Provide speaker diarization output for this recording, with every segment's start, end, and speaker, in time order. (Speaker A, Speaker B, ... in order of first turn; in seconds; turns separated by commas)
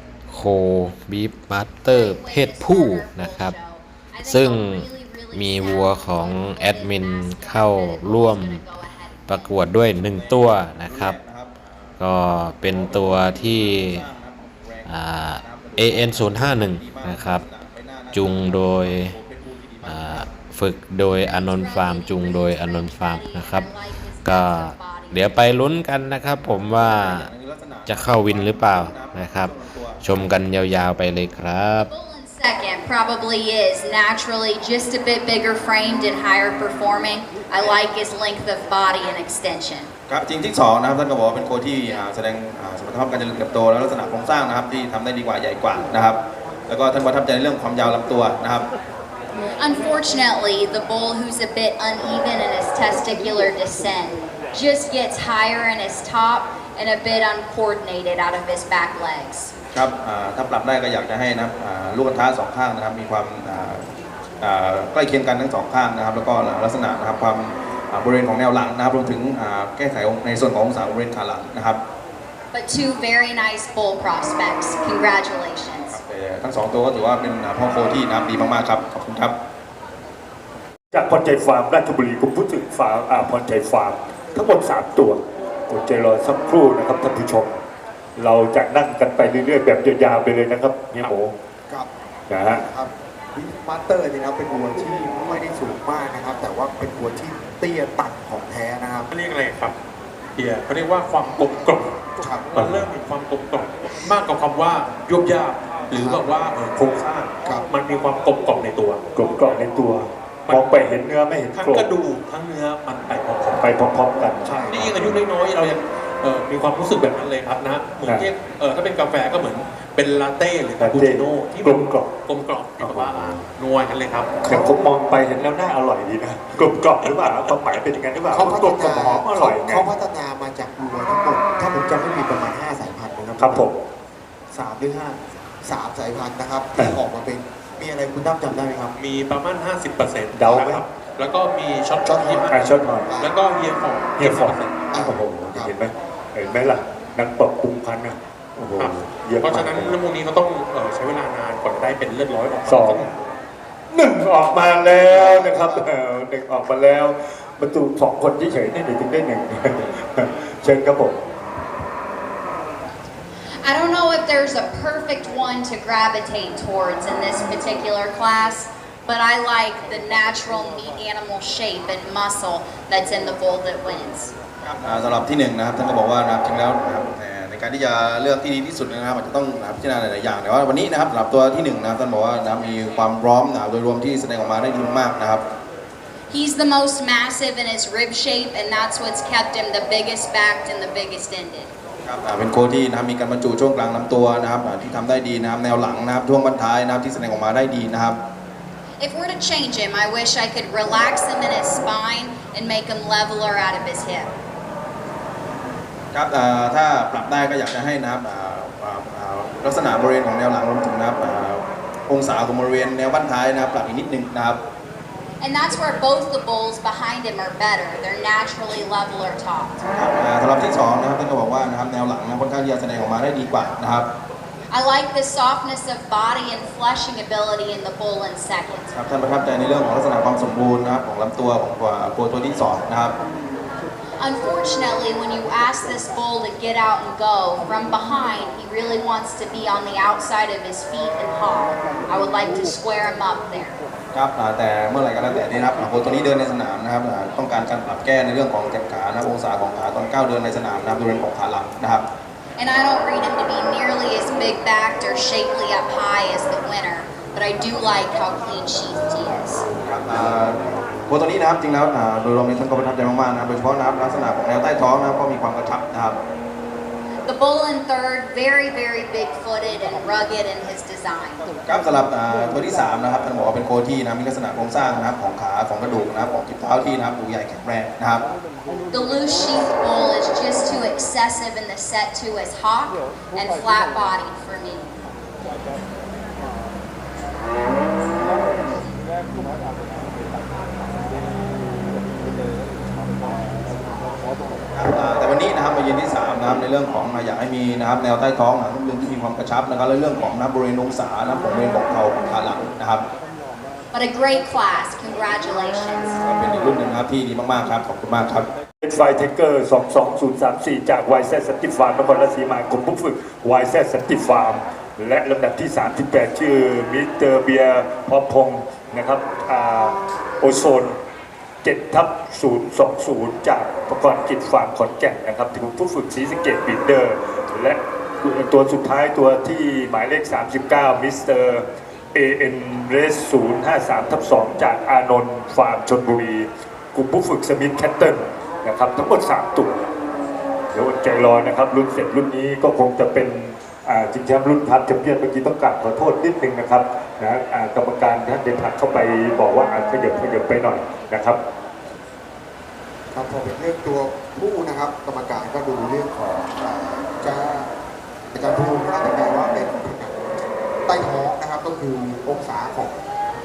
Speaker A: 0.3-3.5, Speaker B: 1.9-9.7, Speaker A: 4.2-8.6, Speaker A: 9.3-11.2, Speaker C: 9.9-20.4, Speaker A: 12.0-14.0, Speaker A: 14.9-17.4, Speaker A: 18.1-19.1, Speaker A: 19.9-23.7, Speaker B: 21.2-25.6, Speaker A: 24.2-27.3, Speaker C: 26.4-30.4, Speaker A: 27.9-31.9, Speaker B: 31.8-39.9, Speaker C: 40.1-48.7, Speaker B: 49.6-59.5, Speaker C: 59.7-63.9, Speaker C: 64.4-71.8, Speaker B: 72.5-76.0, Speaker C: 75.9-79.3, Speaker D: 80.9-87.6, Speaker D: 88.2-91.3, Speaker E: 91.7-99.1, Speaker D: 92.3-92.6, Speaker F: 99.1-99.8, Speaker F: 100.4-102.0, Speaker E: 102.2-102.6, Speaker F: 102.5-109.0, Speaker D: 102.5-102.9, Speaker E: 105.9-106.4, Speaker D: 109.2-111.9, Speaker F: 111.5-113.6, Speaker D: 113.5-114.5, Speaker E: 114.2-115.2, Speaker F: 114.7-124.3, Speaker D: 120.8-122.1, Speaker D: 122.8-123.4, Speaker D: 124.4-129.9, Speaker E: 128.3-133.7, Speaker D: 133.4-133.8, Speaker E: 134.5-138.9, Speaker F: 139.0-142.6, Speaker D: 140.3-140.8, Speaker E: 140.4-140.7, Speaker E: 142.0-143.4, Speaker D: 142.5-143.1, Speaker F: 143.2-144.8, Speaker E: 144.2-145.8, Speaker D: 144.2-150.0, Speaker F: 148.8-153.2, Speaker D: 152.7-153.1, Speaker D: 153.9-161.2, Speaker E: 154.4-155.9, Speaker B: 163.6-174.3, Speaker C: 174.6-185.4, Speaker B: 186.3-191.7, Speaker C: 192.0-198.2, Speaker B: 199.0-204.3, Speaker C: 206.1-214.6, Speaker B: 215.4-219.8, Speaker C: 219.8-224.1, Speaker B: 224.7-228.9, Speaker C: 228.9-233.2, Speaker B: 234.2-243.8, Speaker C: 244.1-252.1, Speaker B: 252.6-259.6, Speaker C: 259.9-266.2, Speaker B: 267.2-271.5, Speaker C: 271.7-278.3, Speaker B: 278.9-285.0, Speaker C: 294.7-303.1, Speaker B: 303.9-306.2, Speaker C: 306.2-308.5, Speaker D: 308.8-321.0, Speaker D: 321.6-331.6, Speaker D: 332.1-339.8, Speaker D: 340.7-351.4, Speaker E: 353.1-357.7, Speaker E: 358.3-360.2, Speaker E: 360.9-363.0